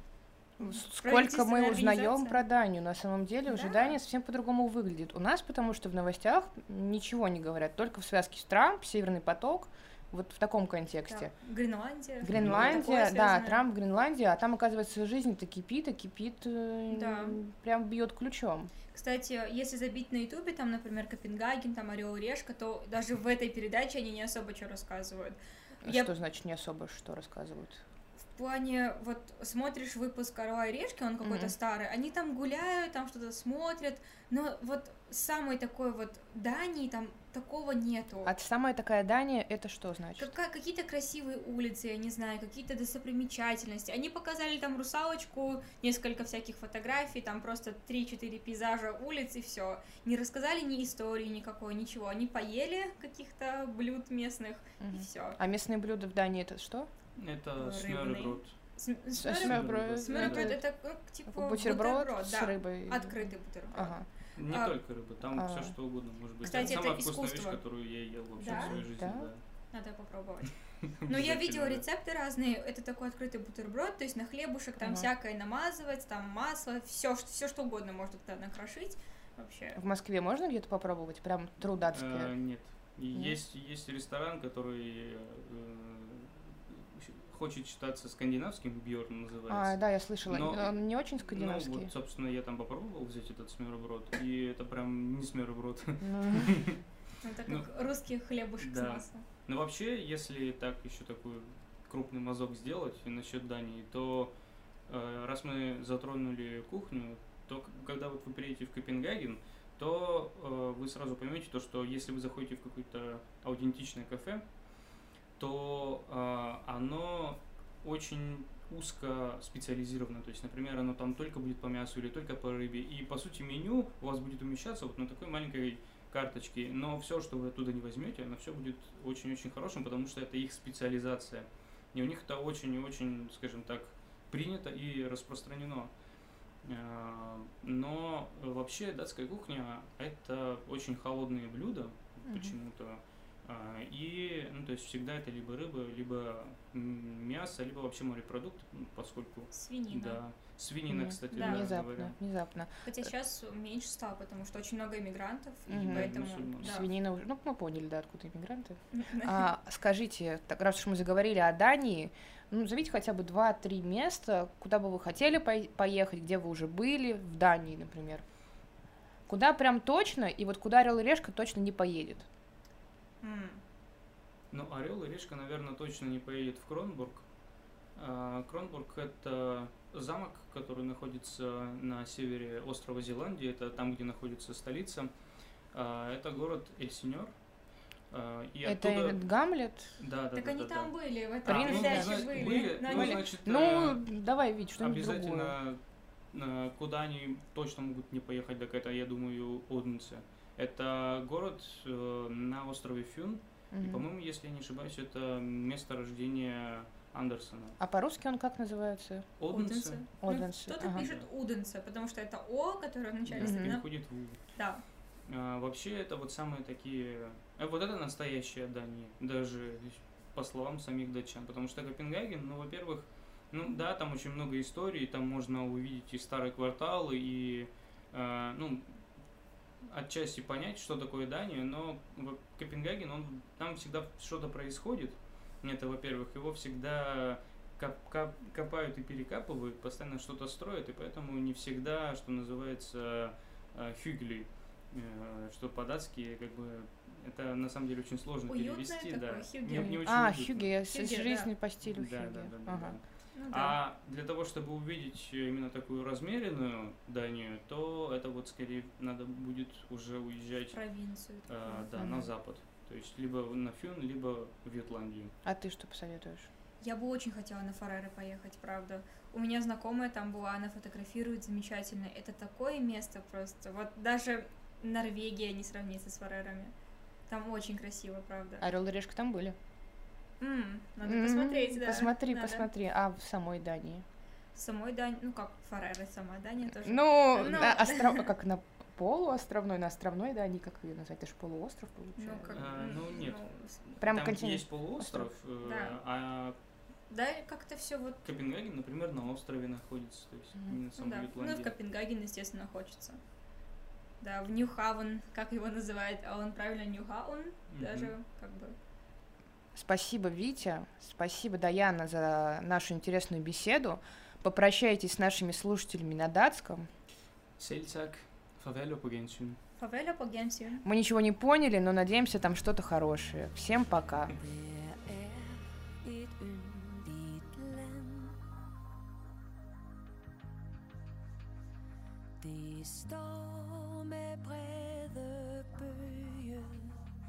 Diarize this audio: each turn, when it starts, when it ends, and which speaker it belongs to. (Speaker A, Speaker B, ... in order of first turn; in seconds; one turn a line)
Speaker A: 0.6-11.3
Speaker B: 1.0-2.4
Speaker B: 3.5-4.0
Speaker B: 11.1-13.6
Speaker A: 12.2-18.7
Speaker C: 12.3-12.8
Speaker B: 16.9-17.4
Speaker B: 18.9-26.1
Speaker A: 25.8-27.8
Speaker B: 28.3-38.3
Speaker A: 31.2-31.5
Speaker A: 38.2-40.3
Speaker B: 40.2-55.4
Speaker A: 54.8-56.9
Speaker C: 57.1-58.5
Speaker B: 57.6-63.9
Speaker A: 59.2-60.6
Speaker C: 59.2-60.6
Speaker A: 61.3-64.1
Speaker C: 64.3-69.4
Speaker B: 64.5-64.7
Speaker A: 65.3-65.7
Speaker B: 66.5-67.6
Speaker A: 66.5-66.8
Speaker B: 68.4-68.8
Speaker A: 68.4-69.3
Speaker B: 69.7-70.5
Speaker C: 70.8-71.8
Speaker B: 71.0-79.8
Speaker A: 74.8-75.1
Speaker A: 79.8-82.3
Speaker C: 81.9-96.8
Speaker A: 89.5-91.9
Speaker A: 96.0-96.5
Speaker B: 97.2-99.2
Speaker C: 98.6-104.3
Speaker C: 104.9-114.4
Speaker C: 115.4-135.9
Speaker C: 136.6-152.1
Speaker A: 142.2-142.6
Speaker B: 149.5-150.2
Speaker A: 150.9-152.9
Speaker B: 151.3-151.6
Speaker B: 152.8-156.9
Speaker C: 155.7-156.8
Speaker A: 155.7-168.2
Speaker B: 158.9-159.4
Speaker A: 169.3-172.2
Speaker B: 173.2-173.6
Speaker C: 174.5-177.2
Speaker C: 177.9-185.1
Speaker C: 185.7-187.3
Speaker C: 188.1-189.2
Speaker A: 188.6-190.0
Speaker C: 190.0-190.9
Speaker B: 190.3-193.2
Speaker C: 191.4-194.0
Speaker A: 191.4-195.6
Speaker C: 194.8-195.8
Speaker C: 196.3-207.8
Speaker A: 203.7-204.0
Speaker A: 207.8-209.3
Speaker C: 209.4-210.0
Speaker B: 209.5-213.9
Speaker A: 210.2-211.1
Speaker C: 210.9-211.2
Speaker C: 213.2-214.4
Speaker A: 213.4-213.8
Speaker B: 214.5-214.8
Speaker C: 215.3-229.0
Speaker C: 229.8-250.7
Speaker B: 248.5-250.0
Speaker A: 249.7-253.0
Speaker B: 250.9-251.5
Speaker C: 251.8-260.8
Speaker B: 253.3-253.8
Speaker B: 260.7-261.8
Speaker C: 261.5-265.3
Speaker A: 261.9-262.3
Speaker A: 265.4-266.5
Speaker B: 266.8-276.7
Speaker B: 277.3-278.6
Speaker A: 278.6-279.6
Speaker B: 280.4-282.7
Speaker A: 281.0-284.0
Speaker B: 284.5-288.3
Speaker A: 286.8-292.6
Speaker B: 292.2-293.7
Speaker C: 292.5-296.6
Speaker A: 294.0-295.3
Speaker B: 295.6-296.0
Speaker B: 297.1-298.3
Speaker C: 298.2-301.7
Speaker B: 301.0-303.2
Speaker B: 304.2-308.8
Speaker C: 307.7-308.1
Speaker A: 309.7-316.9
Speaker C: 317.6-319.6
Speaker B: 319.8-320.9
Speaker A: 320.8-324.3
Speaker D: 324.3-328.4
Speaker D: 332.4-337.0